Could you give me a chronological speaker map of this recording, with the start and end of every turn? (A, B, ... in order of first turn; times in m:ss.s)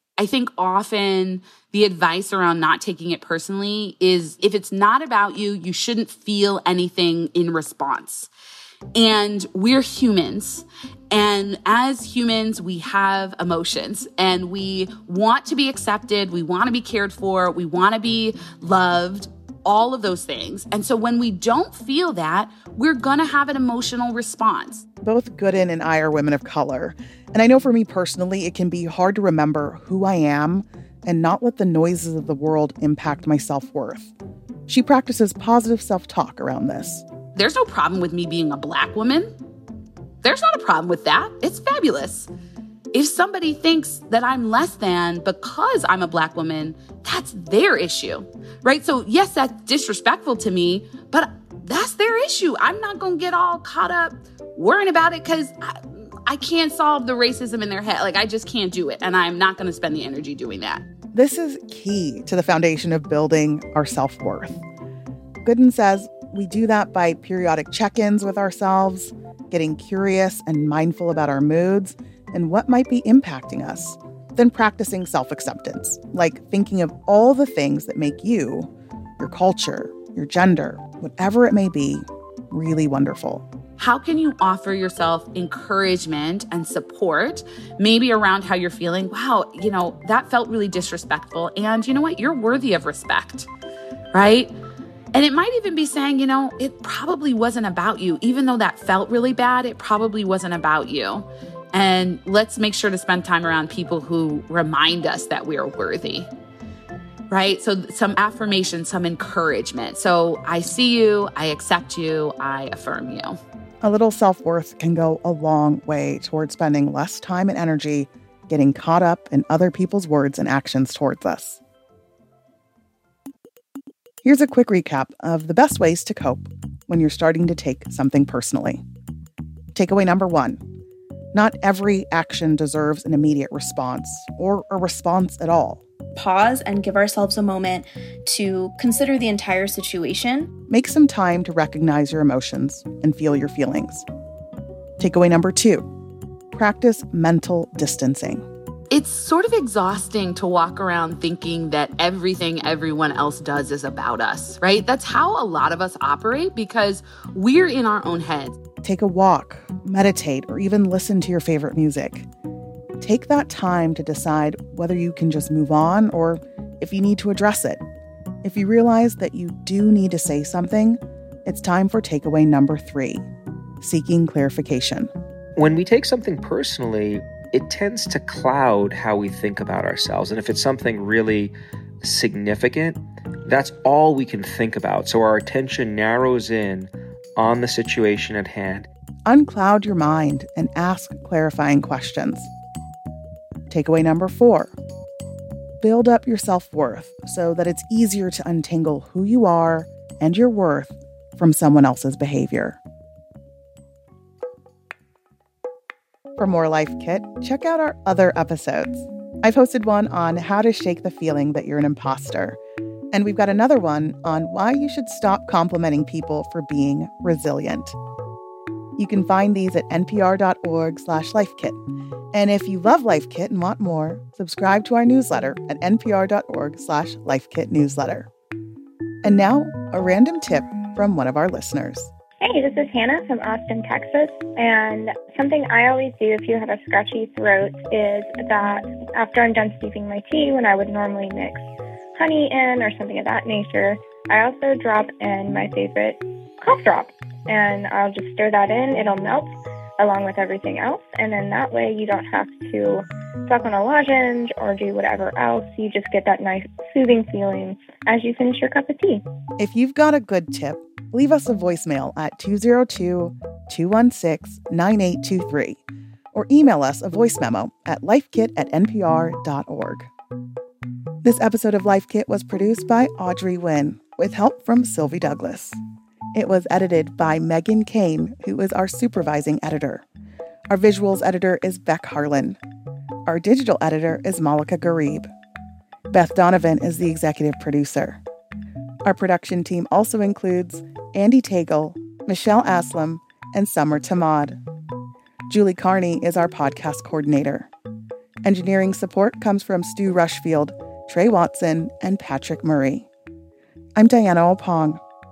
0:00.2-0:08.3 A
0:08.9-0:24.8 A
0:25.0-0:34.1 B
0:34.7-0:37.0 B
0:37.3-0:39.3 A
0:40.2-0:42.3 A
0:42.9-1:00.8 A
1:01.1-1:04.6 B
1:05.4-1:23.4 B
1:23.8-1:33.5 A
1:34.1-1:34.5 A
1:35.1-1:46.3 A
1:47.3-1:53.4 A
1:53.8-2:01.6 B
2:04.2-2:08.8 B
2:09.7-2:10.6 B
2:11.3-2:15.8 B
2:16.2-2:20.5 C
2:20.7-2:24.0 B
2:25.0-2:25.9 B
2:26.5-2:28.4 B
2:28.9-2:38.6 A
2:38.8-2:42.3 B
2:43.0-2:47.8 B
2:48.4-2:53.2 B
2:53.8-2:55.1 B
2:55.6-3:08.9 D
3:09.2-3:12.5 B
3:13.7-3:14.7 B
3:15.8-3:22.8 B
3:26.4-3:32.6 B
3:33.1-3:38.0 B
3:39.0-3:41.8 B
3:42.3-3:48.3 B
3:49.2-3:52.1 B
3:52.4-4:01.6 E
4:02.2-4:19.2 E
4:19.6-4:25.8 B
4:26.3-4:30.1 B
4:31.2-4:35.8 B
4:36.3-4:40.0 B
4:40.7-4:42.6 B
4:43.2-4:45.3 B
4:46.1-4:48.2 B
4:49.0-4:54.6 B
4:55.5-4:57.7 B
4:58.4-5:03.1 B
5:04.0-5:05.0 B